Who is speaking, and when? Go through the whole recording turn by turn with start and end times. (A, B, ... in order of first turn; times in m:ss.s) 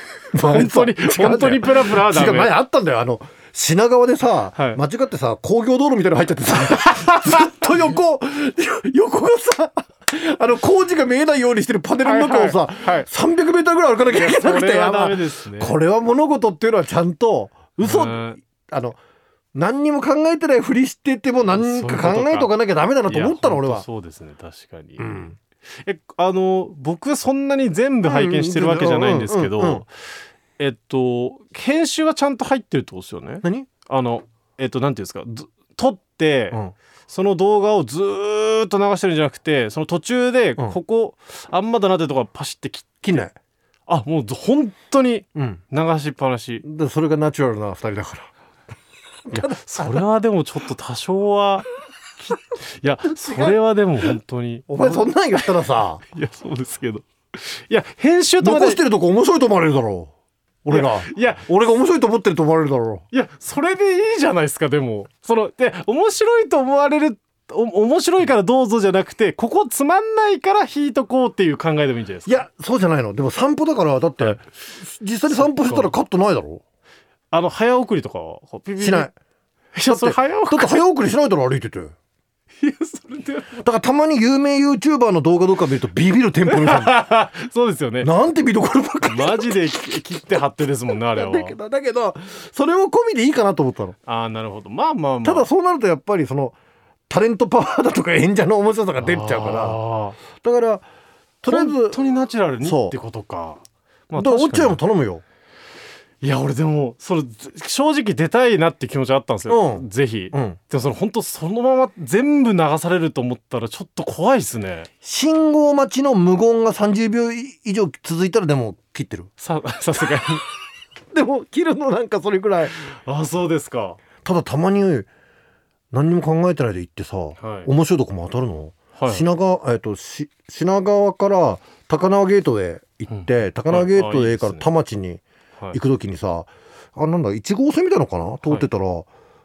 0:00.3-0:19.0 A
0:00.4-0:02.5 B
0:04.6-0:04.8 B
0:12.0-0:13.1 B
0:14.1-0:15.8 B
0:17.8-0:18.4 B
0:19.6-0:23.8 A
0:21.4-0:22.5 B
0:23.1-0:29.9 B
0:25.0-0:25.4 A
0:28.0-0:29.8 A
0:30.6-0:43.2 B
0:33.4-0:33.7 A
0:43.0-0:43.4 A
0:43.9-0:46.6 B
0:45.4-0:45.6 A
0:46.6-0:48.3 A
0:49.3-0:50.0 A
0:49.3-0:51.7 B
0:52.2-0:55.5 B
0:53.2-0:53.6 A
0:54.7-0:56.0 A
0:56.1-0:58.8 B
0:58.4-1:00.1 A
1:00.6-1:03.0 A
1:00.7-1:01.4 B
1:03.1-1:12.3 B
1:12.3-1:16.6 A
1:15.3-1:15.9 B
1:17.3-1:19.1 B
1:18.8-1:19.1 A
1:19.8-1:20.8 B
1:19.9-1:21.9 A
1:22.6-1:23.7 B
1:23.6-1:27.0 A
1:26.5-1:28.1 B
1:28.0-1:29.6 A
1:29.1-1:31.6 B
1:31.1-1:34.0 A
1:34.1-1:35.5 B
1:35.2-1:36.6 A
1:37.1-1:39.8 A
1:39.0-1:40.2 B
1:40.3-1:40.8 A
1:41.4-1:42.0 A
1:41.5-1:44.8 B
1:42.6-1:43.0 A
1:44.2-1:45.2 A
1:46.2-1:54.9 B
1:49.5-1:50.6 A
1:55.0-1:59.3 A
1:59.4-2:00.4 B
2:01.1-2:02.8 A
2:02.8-2:04.0 B
2:04.2-2:05.1 A
2:05.9-2:19.1 A
2:07.4-2:07.7 B
2:09.0-2:09.3 B
2:13.1-2:14.6 B